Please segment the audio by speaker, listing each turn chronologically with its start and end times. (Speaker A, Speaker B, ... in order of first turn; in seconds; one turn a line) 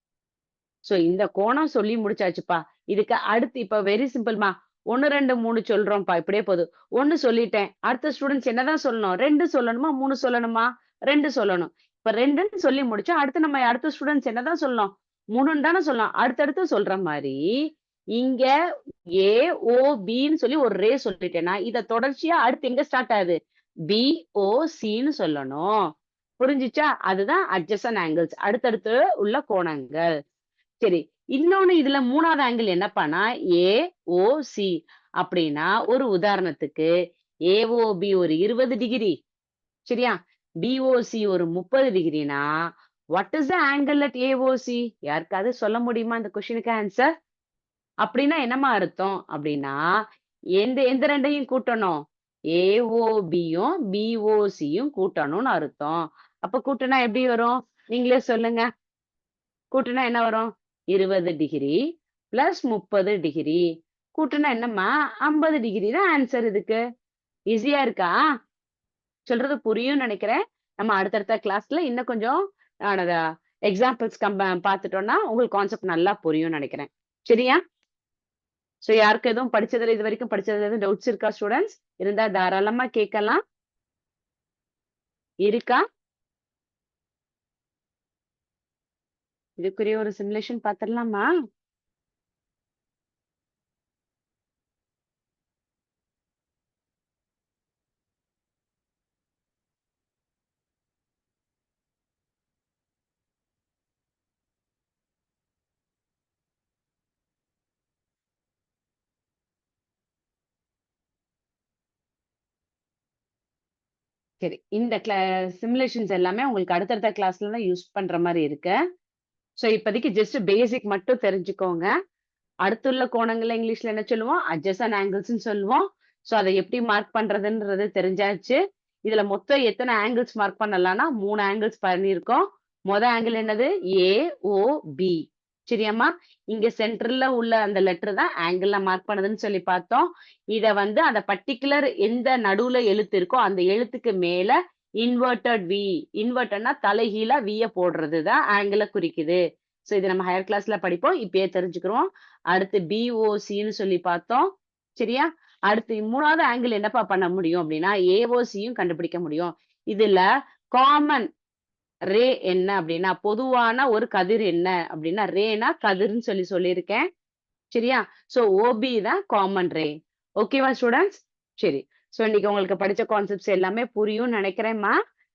Speaker A: 0.9-17.4
Speaker A: 18.2-18.5
Speaker A: 19.2-23.4
Speaker A: 23.9-25.7
Speaker A: 26.4-30.1
Speaker A: 30.8-36.9
Speaker A: 37.5-39.1
Speaker A: 39.9-42.4
Speaker A: 43.1-47.1
Speaker A: 48.0-49.8
Speaker A: 50.6-52.0
Speaker A: 52.5-58.6
Speaker A: 59.7-61.8
Speaker A: 62.3-63.6
Speaker A: 64.1-66.8
Speaker A: 67.5-68.2
Speaker A: 69.3-77.6
Speaker A: 78.8-83.4
Speaker A: 85.5-85.8
Speaker A: 89.6-91.3
Speaker A: 114.4-118.8
Speaker A: 119.6-121.9
Speaker A: 122.7-160.2
Speaker A: 160.7-161.3
Speaker A: 162.1-167.0
Speaker A: 167.7-174.9